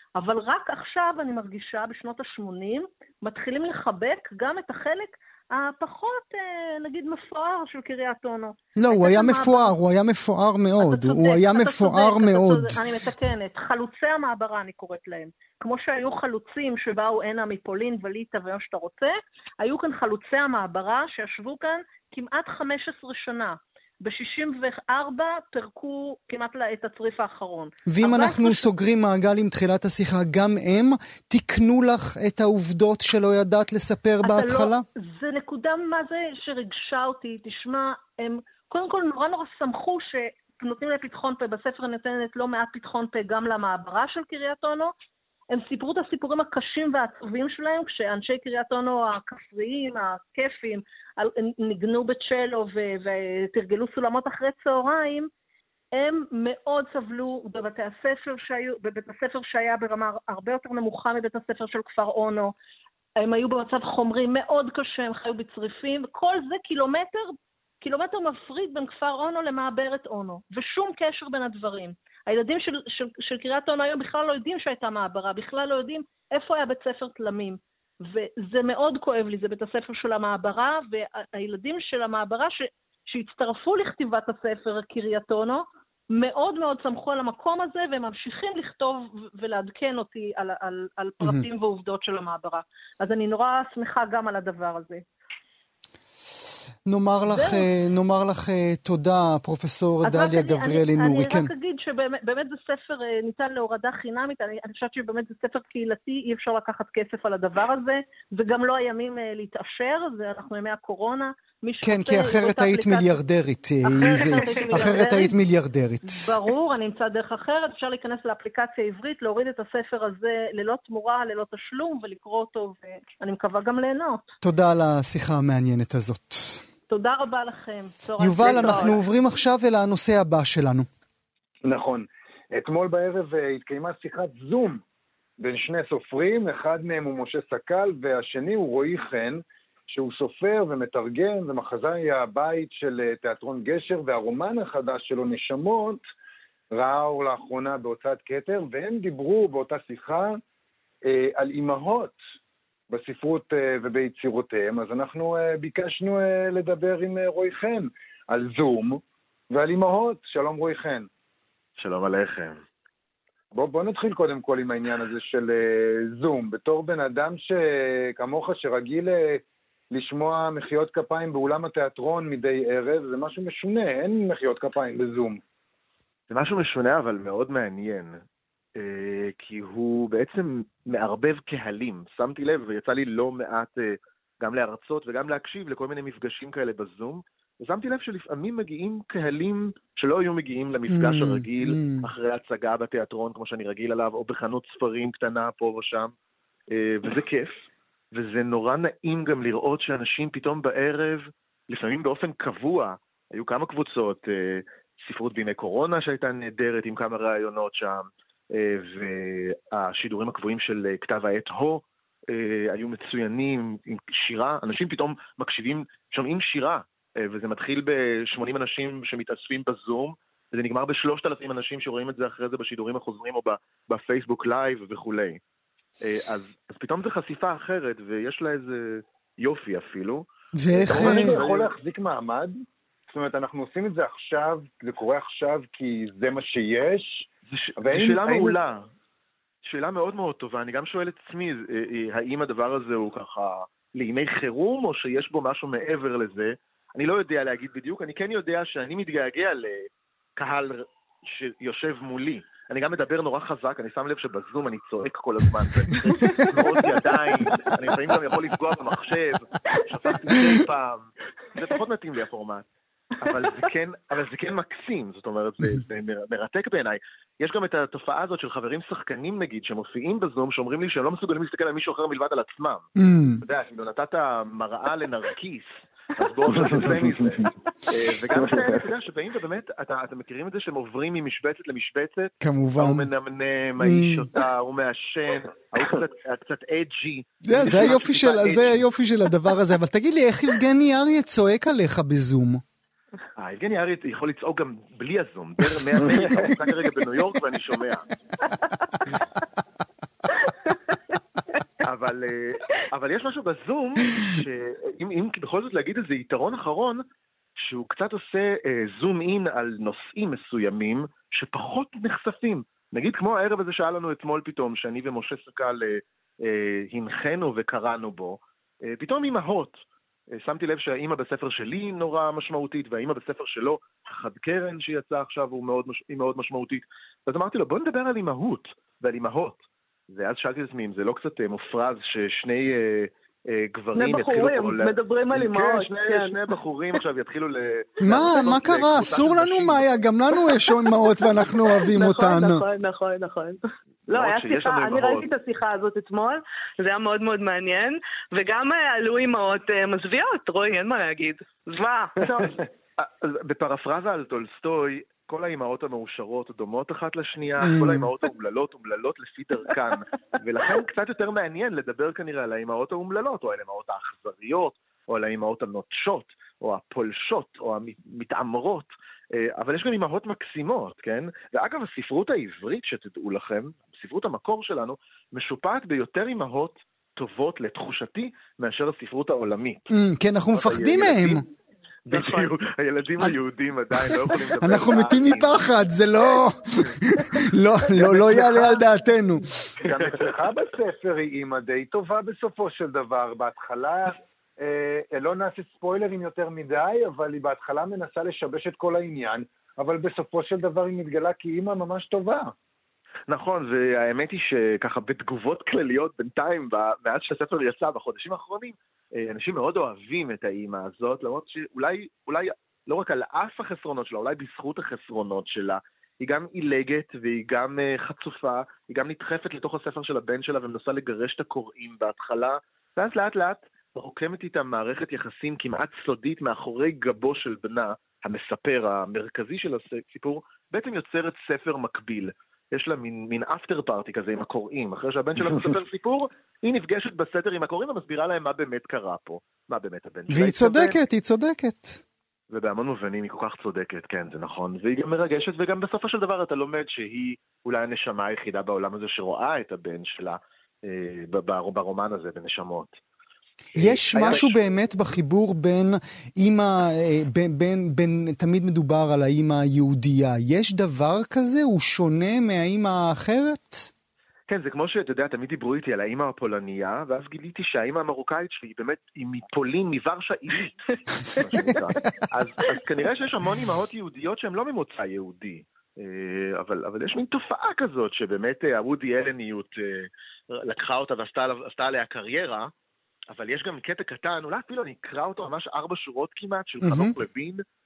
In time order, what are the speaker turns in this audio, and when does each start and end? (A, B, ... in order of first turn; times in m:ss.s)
0:00.2-0:09.8 A
0:08.8-0:12.8 B
0:10.8-0:28.7 A
0:27.9-0:34.8 B
0:34.2-0:44.9 A
0:45.5-0:55.3 A
0:55.9-1:02.5 A
1:03.2-1:35.0 A
1:36.8-1:41.5 B
1:37.3-1:37.7 A
1:40.0-1:53.2 A
1:51.8-1:56.3 B
1:53.8-1:55.3 A
1:56.1-2:04.2 A
2:04.4-2:06.6 B
2:06.9-2:09.0 A
2:08.2-2:10.9 B
2:08.5-2:08.9 C
2:11.6-2:14.8 D
2:15.4-2:26.0 D
2:26.7-2:30.4 D
2:31.1-2:32.2 D
2:32.9-2:39.0 D
2:39.5-2:41.1 D
2:41.8-2:42.6 E
2:43.5-2:55.4 D
2:56.3-2:58.2 E
2:58.8-3:16.1 E
3:10.9-3:12.1 B
3:16.7-3:45.4 E
3:46.0-3:51.7 E
3:50.6-3:51.4 B
3:50.8-3:57.3 D
3:57.5-3:58.9 E
3:57.8-3:58.6 D
3:59.6-4:22.7 E
4:16.2-4:16.6 C
4:23.2-4:32.9 E
4:33.0-4:33.4 B
4:33.4-4:48.8 E
4:38.3-4:38.8 D
4:42.4-4:43.1 B
4:43.8-4:44.3 B
4:47.5-4:52.6 B
4:53.4-4:58.1 E
5:01.8-5:07.0 E
5:07.6-5:39.9 E
5:33.9-5:36.4 C
5:38.0-5:42.6 B
5:41.9-5:52.6 C
5:44.1-5:45.3 E
5:52.2-6:20.0 E
5:57.6-5:58.1 B
6:19.9-6:21.4 B
6:20.5-6:21.4 E
6:22.1-6:25.7 E
6:22.1-6:22.5 C
6:24.6-6:29.5 B
6:29.8-6:42.5 D
6:29.9-6:30.3 E
6:43.3-7:21.0 E
7:20.3-7:22.0 B
7:22.5-7:33.0 E
7:33.8-7:34.5 E
7:33.8-7:43.9 B
7:44.5-8:02.7 E
8:03.3-8:07.6 E
8:06.8-8:07.1 B